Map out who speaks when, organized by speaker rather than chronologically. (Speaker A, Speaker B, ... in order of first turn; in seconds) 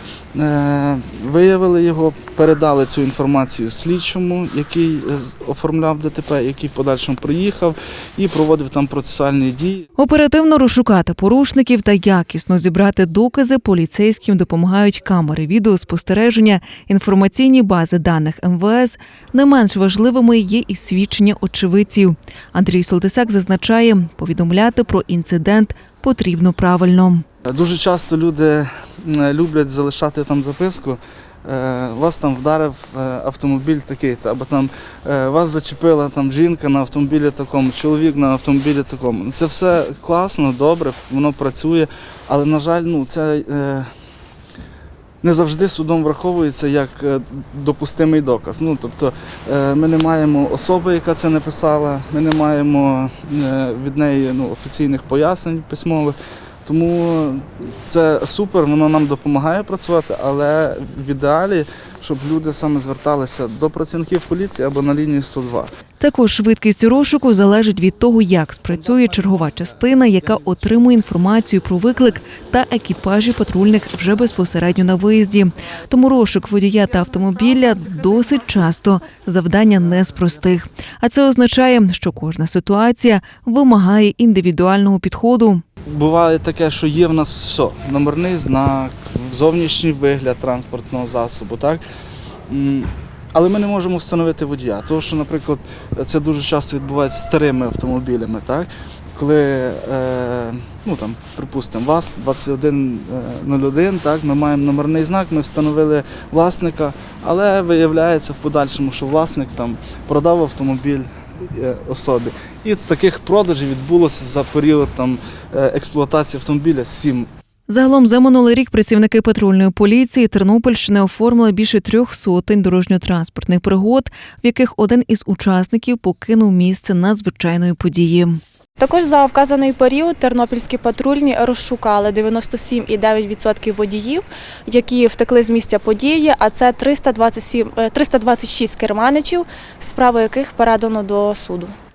Speaker A: 0.3-9.8, 27.4-43.9, 45.2-65.7, 85.8-91.8, 92.5-117.3
Speaker B: 10.0-27.2, 66.0-85.6, 117.7-128.4
Speaker C: 128.8-141.8